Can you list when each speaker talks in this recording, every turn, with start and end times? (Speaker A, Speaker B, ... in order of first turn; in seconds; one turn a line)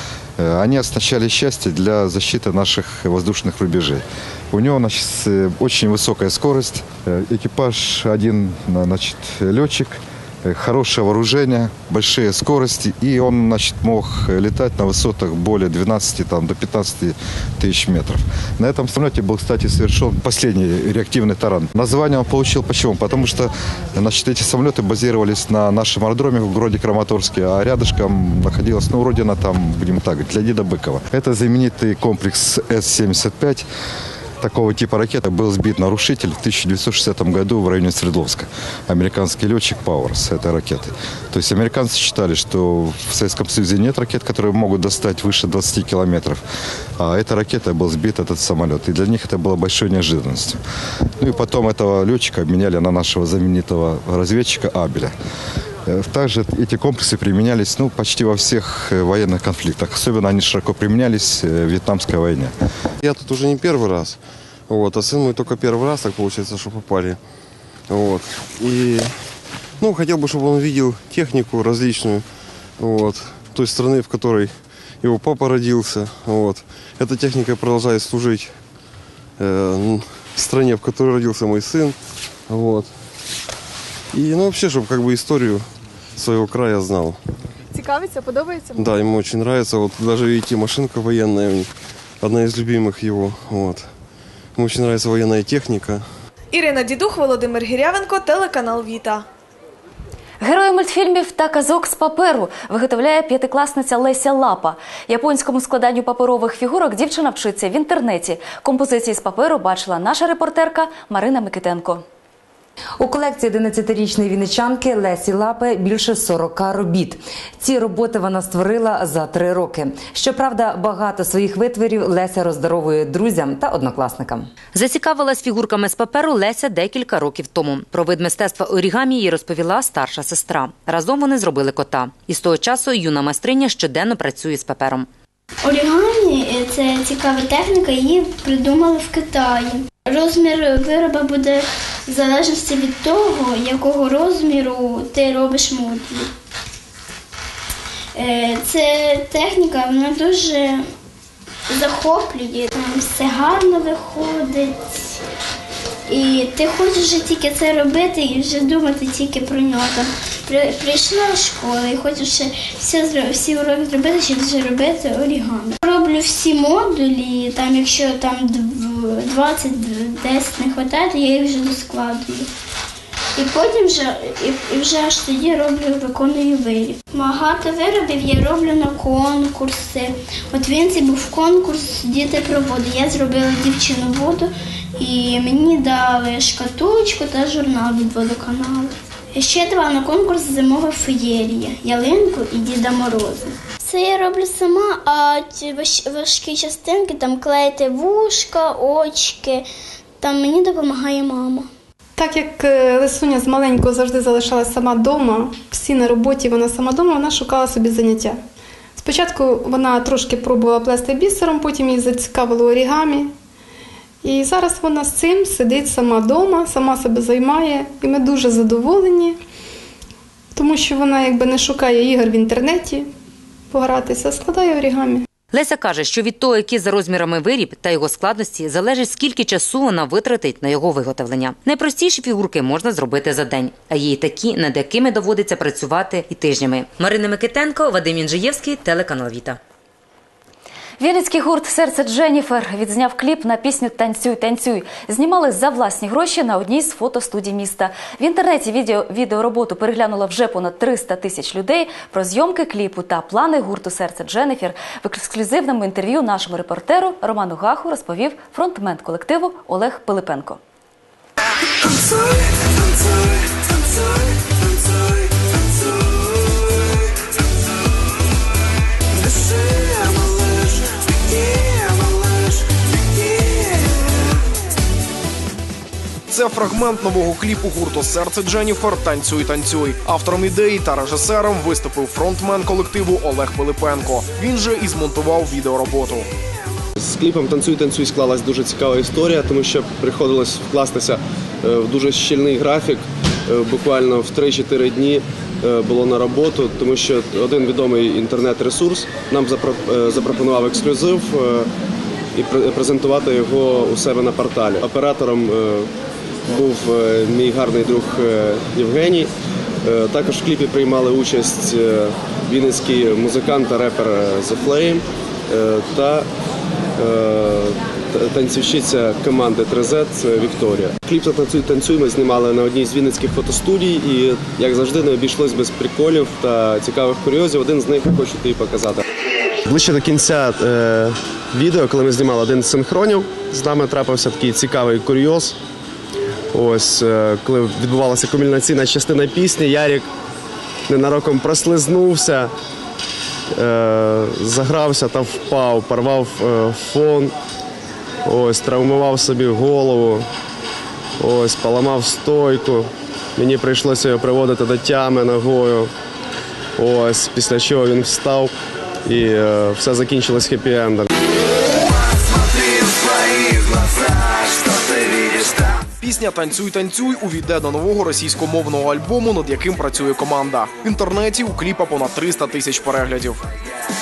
Speaker A: 0.4-33.7
Speaker A: 34.4-46.4
Speaker A: 47.0-50.6
Speaker A: 51.2-55.1
Speaker A: 55.9-62.5
Speaker B: 63.0-67.2
Speaker B: 67.9-69.1
Speaker B: 69.8-72.3
Speaker B: 72.8-78.6
Speaker B: 79.4-82.0
Speaker B: 82.5-82.9
Speaker B: 84.1-87.2
Speaker C: 87.8-88.7
Speaker B: 88.8-91.7
Speaker B: 92.2-93.9
Speaker B: 94.6-96.0
Speaker C: 96.5-99.2
Speaker D: 100.4-112.0
Speaker E: 113.0-135.1
Speaker F: 135.6-146.3
Speaker F: 148.2-150.8
Speaker F: 151.7-155.2
Speaker F: 156.1-172.5
Speaker F: 173.4-199.6
Speaker F: 200.2-201.7
Speaker G: 202.2-208.4
Speaker G: 209.0-213.3
Speaker G: 214.2-219.4
Speaker G: 220.6-223.1
Speaker G: 223.7-225.2
Speaker E: 225.5-239.6
Speaker D: 241.0-260.6
Speaker H: 276.3-286.3
Speaker I: 287.0-301.7
Speaker I: 302.4-305.9
Speaker I: 306.5-309.3
Speaker I: 309.8-316.3
Speaker I: 317.0-329.0
Speaker I: 329.6-335.6
Speaker I: 336.5-340.1
Speaker I: 340.9-342.5
Speaker I: 343.6-347.3
Speaker I: 348.2-350.3
Speaker I: 351.2-355.9
Speaker I: 356.8-358.5
Speaker I: 359.1-361.1
Speaker H: 366.0-373.4